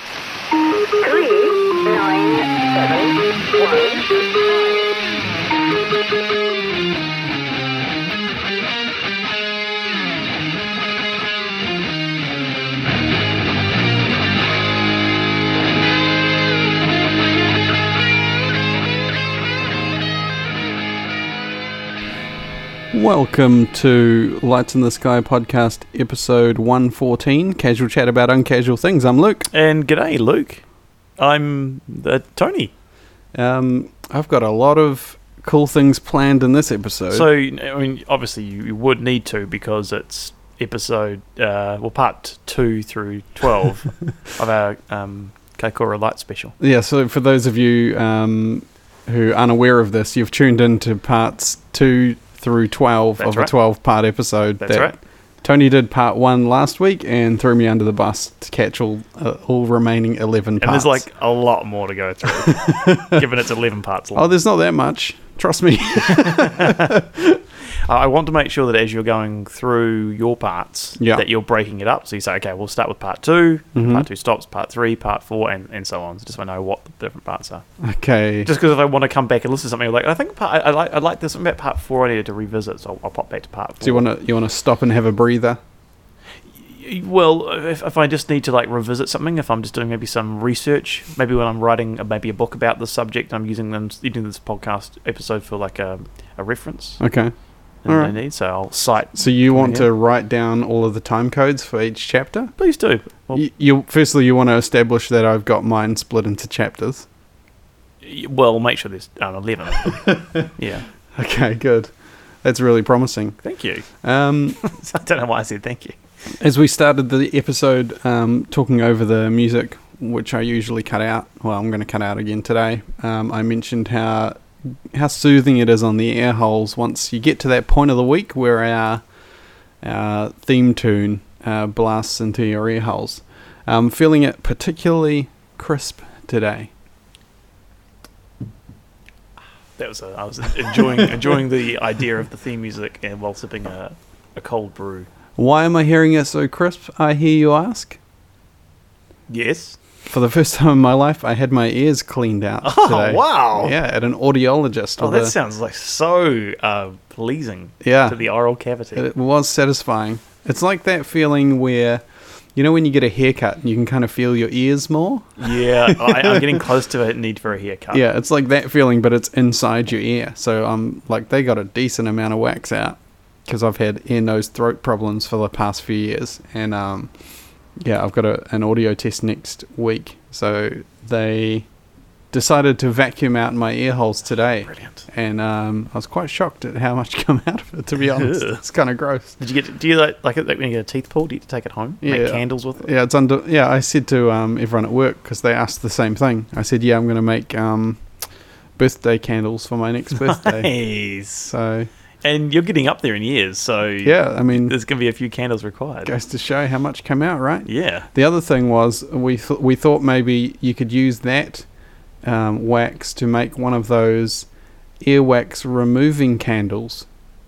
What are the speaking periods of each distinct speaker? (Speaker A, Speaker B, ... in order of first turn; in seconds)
Speaker A: 1.0-4.9
Speaker B: 22.9-29.5, 33.3-37.3, 46.6-61.0, 62.4-63.2, 64.1-67.4, 71.0-71.2, 73.7-74.0, 77.8-78.5, 83.8-85.6, 97.0-97.3, 97.9-98.1, 99.1-102.5, 103.3-107.0, 110.0-110.4, 111.1-111.9, 112.4-113.4, 114.0-114.6, 116.4-129.0, 129.8-136.7, 145.4-148.0, 150.1-155.3, 157.8-158.2, 158.9-162.0, 162.5-166.6, 167.9-177.1, 177.8-181.7, 182.3-189.4, 192.0-198.0, 198.8-200.7, 201.5-201.9, 204.0-204.7, 206.0-211.7, 212.2-214.5, 215.0-217.1
Speaker C: 29.5-30.6, 31.2-32.7, 37.1-46.5, 53.2-53.5, 54.6-55.0, 60.6-64.3, 66.2-66.9, 67.8-77.6, 78.4-84.0, 86.6-97.0, 97.8-99.9, 102.6-103.4, 108.0-110.8, 113.4-113.8, 114.6-116.0, 139.8-145.1, 149.3-149.8, 152.6-153.7, 155.0-159.1, 165.4-168.0, 184.7-185.1, 188.1-188.6, 189.4-192.8, 200.2-201.5, 202.2-206.1, 207.7-208.1